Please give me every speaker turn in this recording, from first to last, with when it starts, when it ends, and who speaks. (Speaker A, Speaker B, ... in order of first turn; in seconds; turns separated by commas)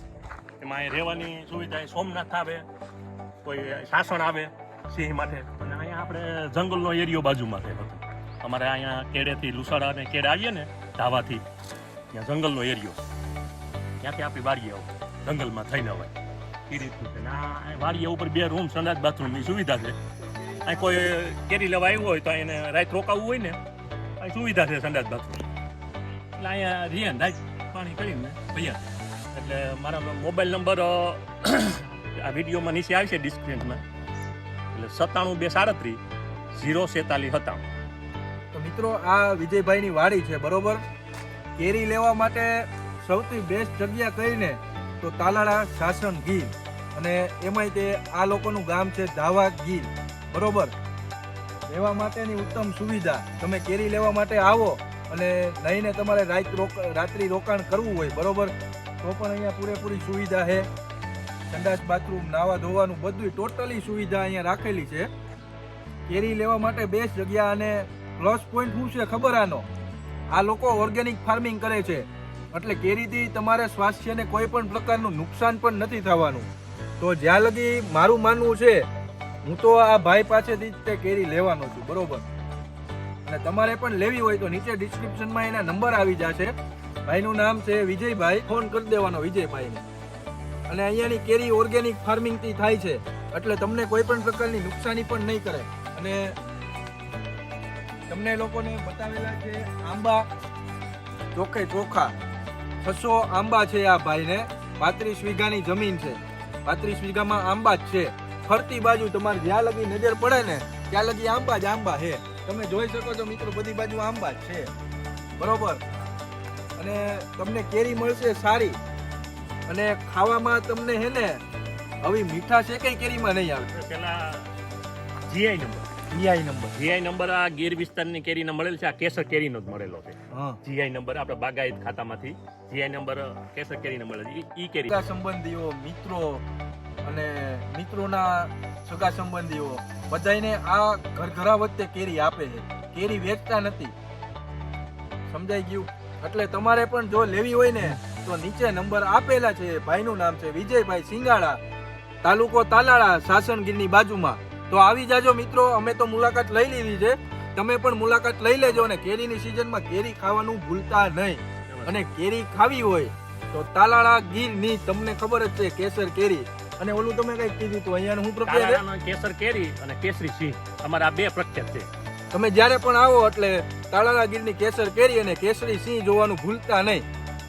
Speaker A: 0.6-2.6, Speaker A: 3.4-11.4, Speaker A: 12.1-13.0, Speaker A: 14.0-16.1, Speaker A: 16.7-20.0, Speaker A: 20.6-23.6, Speaker A: 24.2-25.5, Speaker A: 26.4-33.8, Speaker A: 34.7-36.0, Speaker A: 36.5-37.6, Speaker B: 38.5-40.8, Speaker B: 41.6-50.7, Speaker B: 51.7-60.7, Speaker B: 61.5-65.1, Speaker B: 66.1-69.7, Speaker B: 70.3-76.5, Speaker B: 77.0-78.9, Speaker B: 79.4-82.2, Speaker B: 83.2-86.5, Speaker B: 87.1-89.8, Speaker B: 90.7-96.4, Speaker B: 98.1-100.3, Speaker B: 101.3-102.1, Speaker B: 102.8-114.7, Speaker B: 115.4-115.8, Speaker B: 116.8-118.8, Speaker B: 119.7-121.4, Speaker B: 122.0-123.7, Speaker A: 123.7-124.5, Speaker A: 125.2-125.9, Speaker B: 126.1-126.7, Speaker A: 126.7-135.0, Speaker B: 130.3-130.6, Speaker B: 134.9-136.4, Speaker B: 137.0-143.9, Speaker B: 145.3-151.6, Speaker B: 152.2-168.8, Speaker A: 161.7-162.0, Speaker A: 168.4-171.9, Speaker B: 172.3-177.1